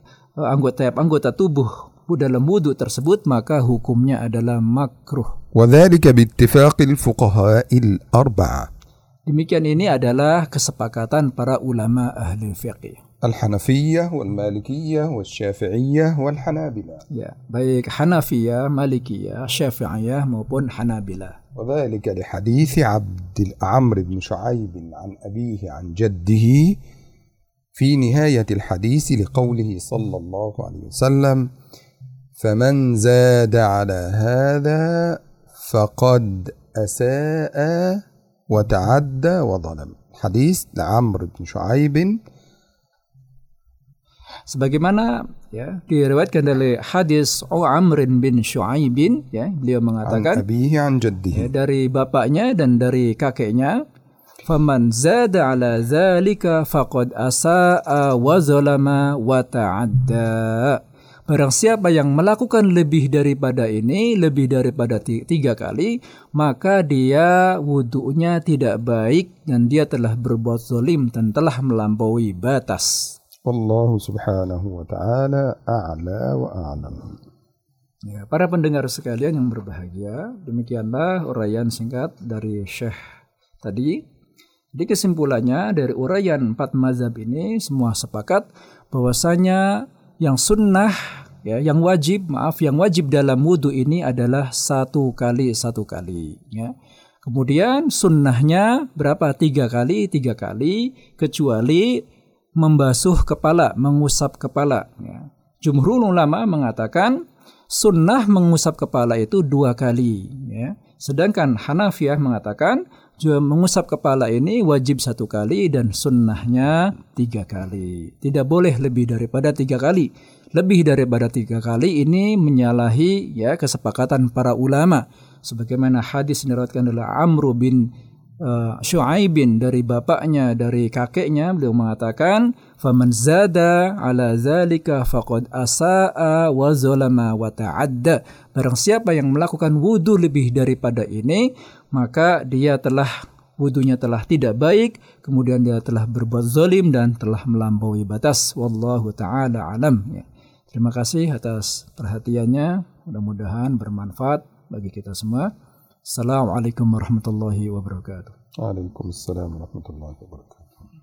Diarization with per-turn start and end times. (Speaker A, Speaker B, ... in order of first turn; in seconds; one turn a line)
Speaker A: 0.4-5.3
Speaker B: 5.5-8.7
Speaker A: 9.3-13.0
Speaker B: 13.2-17.0
Speaker A: 17.1-21.4
Speaker B: 21.5-26.8
Speaker B: 27.8-31.5
Speaker B: 32.4-42.2
Speaker A: 44.5-50.4
Speaker B: 50.0-51.5
Speaker A: 51.3-53.8
Speaker A: 54.5-72.9
Speaker B: 73.5-77.2
Speaker A: 78.0-83.0
Speaker A: 83.6-84.0
Speaker A: 84.7-102.0
Speaker A: 102.6-127.9
Speaker A: 128.4-155.5
Speaker A: 156.1-158.3
Speaker B: 158.6-160.7